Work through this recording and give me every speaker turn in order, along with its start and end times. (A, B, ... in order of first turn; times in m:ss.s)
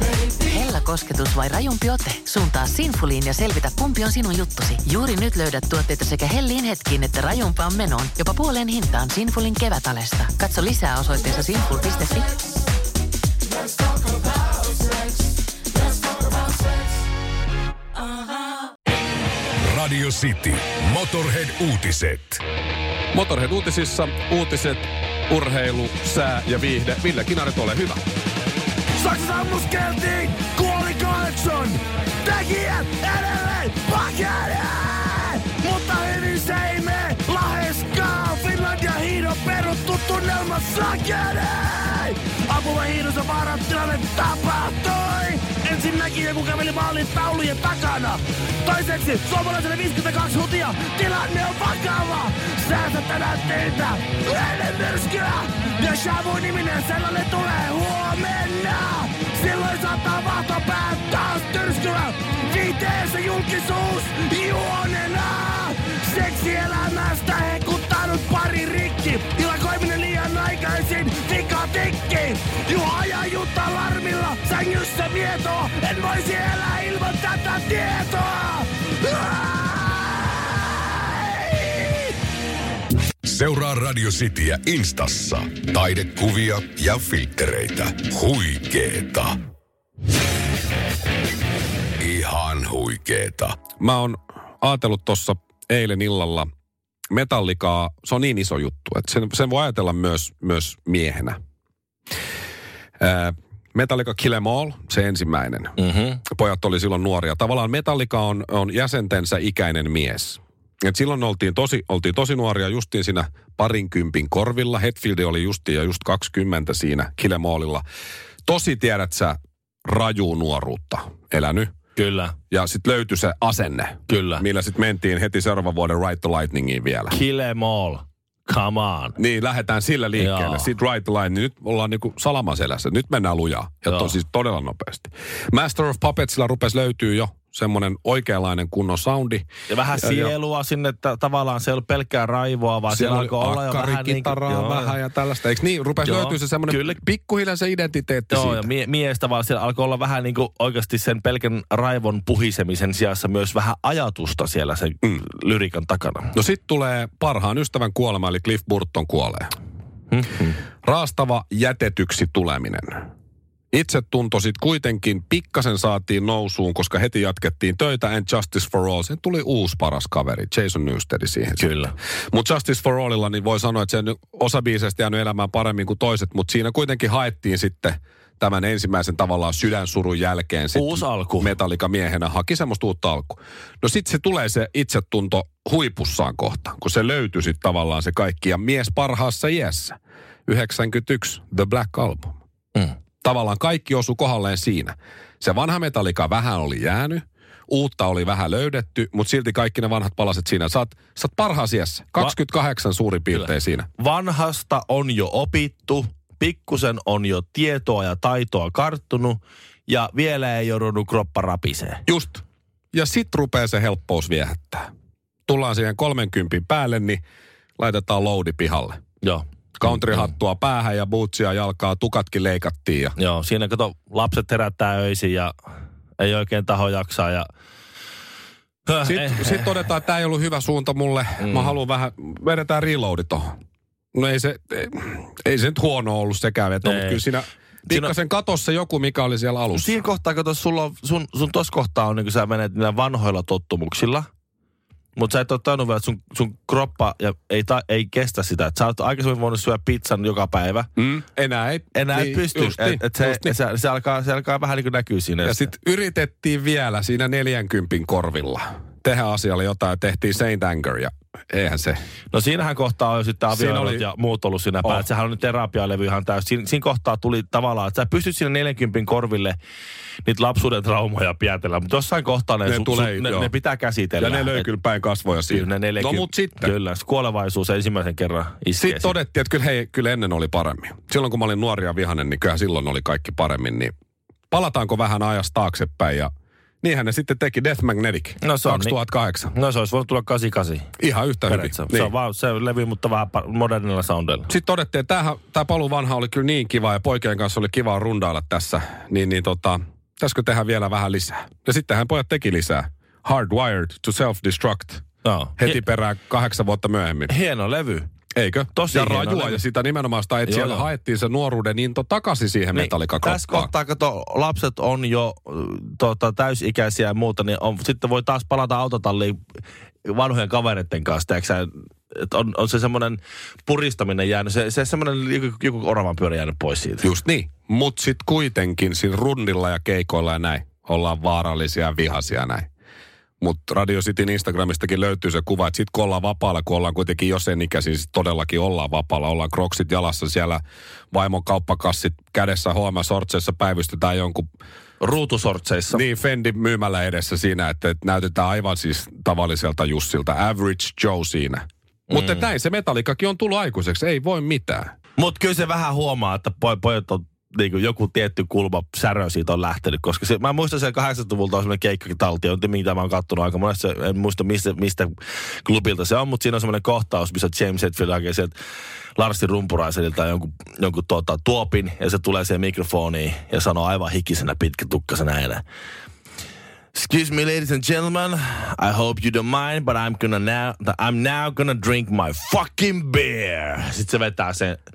0:00.4-0:12.3 A
0:19.6-0:22.4 B
0:23.1-0:28.0 C
0:29.0-1:19.8 D
1:23.2-1:29.3 B
1:32.0-1:33.5 B
1:33.8-1:36.5 C
1:37.1-1:41.4 C
1:43.0-1:45.7 C
1:45.8-1:46.2 E
1:46.3-1:57.8 C
1:58.4-2:01.7 C
2:02.0-2:02.3 E
2:02.5-2:07.1 C
2:04.1-2:04.4 E
2:07.1-2:09.2 E
2:09.2-2:20.3 C
2:10.2-2:10.7 E
2:13.9-2:14.1 E
2:19.7-2:25.0 E
2:22.9-2:28.7 C
2:26.0-2:27.0 E
2:28.3-2:36.3 E
2:36.3-2:39.5 C
2:40.1-2:40.6 E
2:40.8-2:43.0 C
2:43.7-2:51.6 C
2:51.6-2:51.9 E
2:52.3-3:09.9 C
3:00.7-3:01.5 E
3:10.5-3:12.3 C
3:13.2-3:23.9 C
3:23.3-3:32.0 E
3:32.0-3:32.4 C
3:32.9-3:34.8 C
3:35.5-3:37.2 C
3:37.8-3:39.0 C
3:39.2-3:40.3 E
3:39.8-3:43.1 C
3:43.2-3:45.5 E
3:46.2-3:47.5 E
3:48.9-3:49.7 E
3:49.0-3:53.5 C
3:51.4-3:51.7 E
3:54.1-4:00.0 C
3:56.8-3:57.2 E
3:57.8-3:58.1 E
3:59.7-4:04.3 E
4:05.2-4:10.9 E
4:11.0-4:13.6 C
4:11.9-4:15.7 E
4:15.4-4:22.0 C
4:22.3-4:29.6 E
4:23.5-4:24.0 C
4:30.2-4:34.7 E
4:32.6-4:33.5 C
4:34.2-4:36.7 C
4:35.5-4:39.1 E
4:38.8-4:43.9 C
4:44.5-4:46.3 C
4:46.8-4:49.5 C
4:48.4-4:48.9 E
4:49.5-4:50.9 E
4:51.0-4:52.1 C
4:51.5-4:54.5 E
4:54.5-5:05.0 C
5:05.2-5:05.8 E
5:05.6-5:07.3 C
5:07.3-5:08.1 E
5:08.3-5:13.7 C
5:08.7-5:09.6 E
5:10.4-5:10.9 E
5:12.7-5:19.4 E
5:20.0-5:27.0 E
5:27.0-5:32.7 C
5:33.4-5:44.4 C
5:45.0-5:46.0 E
5:45.9-5:54.9 C
5:52.1-5:52.4 E
5:55.2-6:08.5 E
6:09.2-6:15.6 E
6:16.9-6:24.8 E